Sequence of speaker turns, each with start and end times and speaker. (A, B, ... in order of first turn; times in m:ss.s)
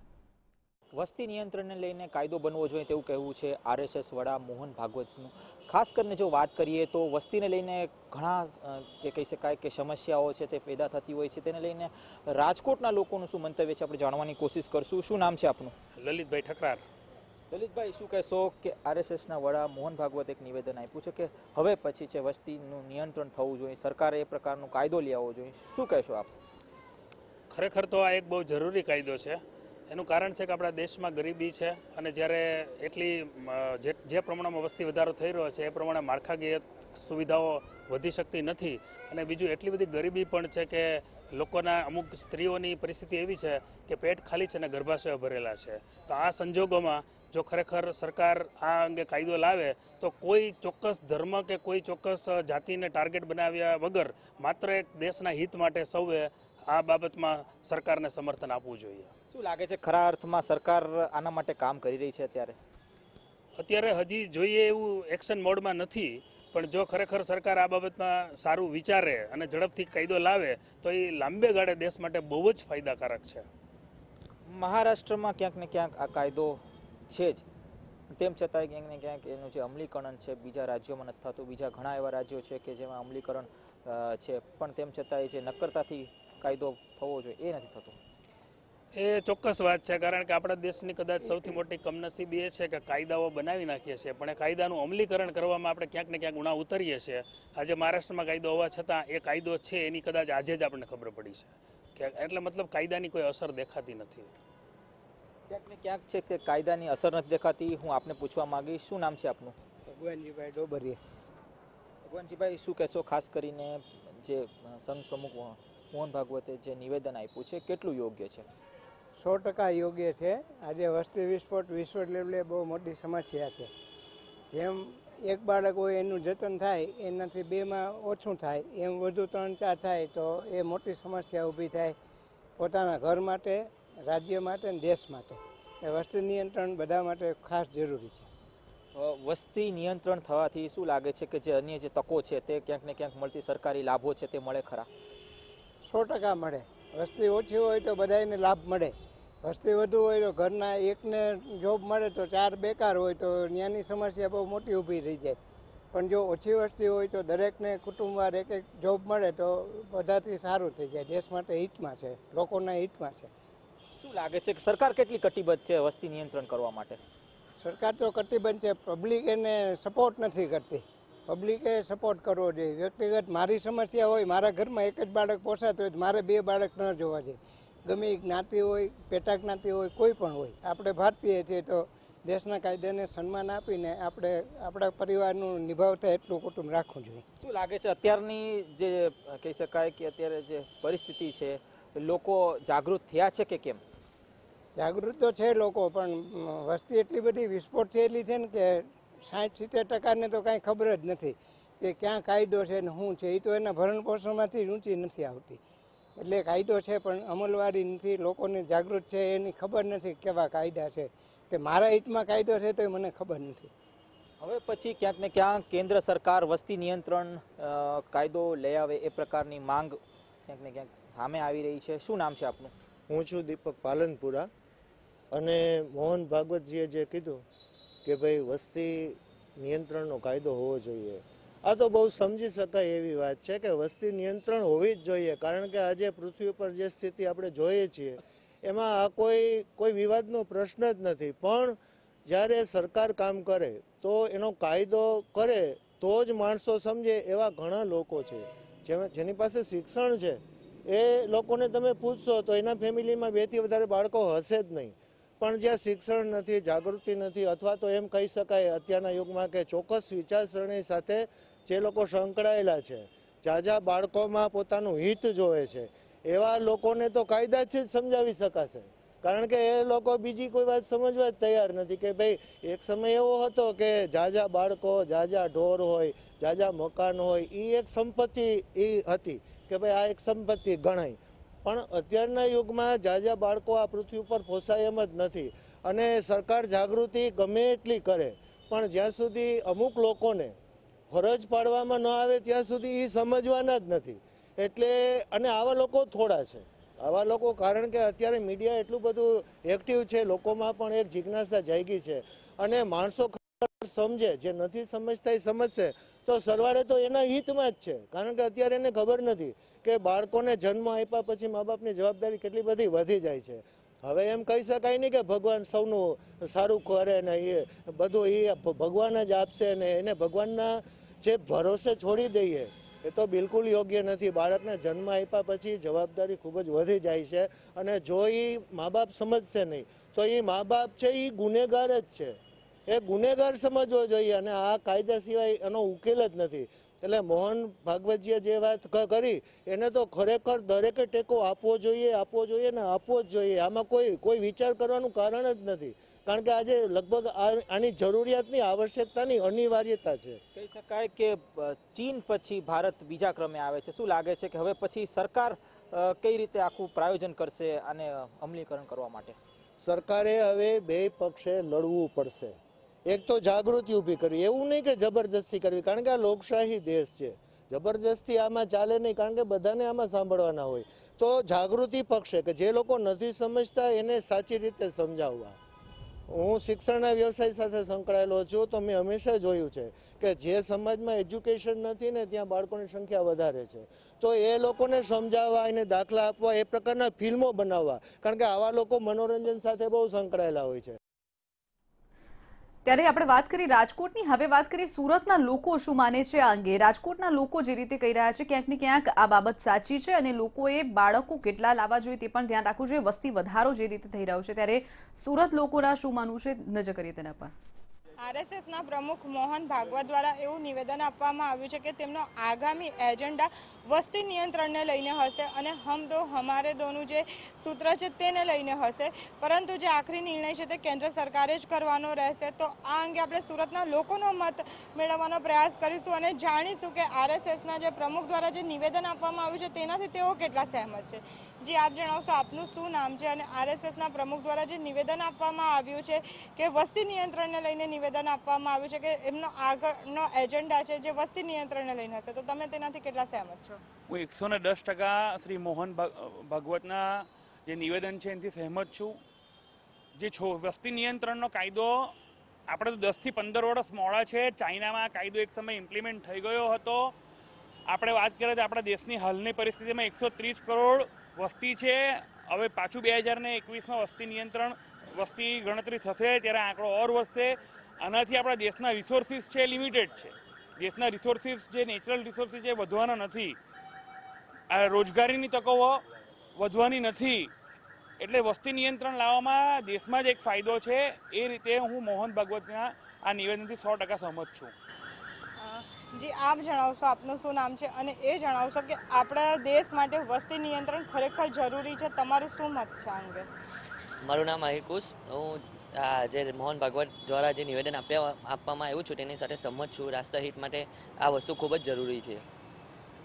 0:00.9-0:15.7 A
0:16.0-0:16.8 B
0:17.5-0:26.3 A
0:27.5-0:59.1 B
0:59.3-1:02.6 A
1:03.6-1:13.4 B
1:14.5-1:17.4 A
1:18.1-1:28.0 A
1:28.9-1:44.3 B
1:45.5-1:49.6 A
1:49.9-1:51.0 C
1:52.1-1:58.5 A
1:59.2-2:03.7 C
2:04.5-2:12.0 C
2:12.6-2:18.3 C
2:18.9-2:24.9 A
2:25.8-2:35.4 C
2:35.9-2:43.3 C
2:44.0-2:47.0 A
2:47.6-3:07.2 C
3:07.4-3:13.8 A
3:14.8-3:25.6 C
3:26.2-3:33.7 C
3:34.4-3:42.7 A
3:43.1-3:44.5 D
3:45.3-3:47.4 D
3:48.0-4:50.6 D
4:51.1-5:50.4 D
5:50.5-5:59.4 A
5:59.8-6:15.6 D
6:16.3-6:31.0 D
6:32.8-6:47.5 E
6:48.2-7:23.8 F
7:24.1-7:29.2 G
7:30.2-7:32.1 G
7:32.7-7:37.1 G
7:37.9-7:53.6 G
7:54.7-7:56.0 G
7:56.6-7:57.5 G
7:58.2-8:04.7 G
8:05.6-8:13.4 F
8:14.2-8:22.4 H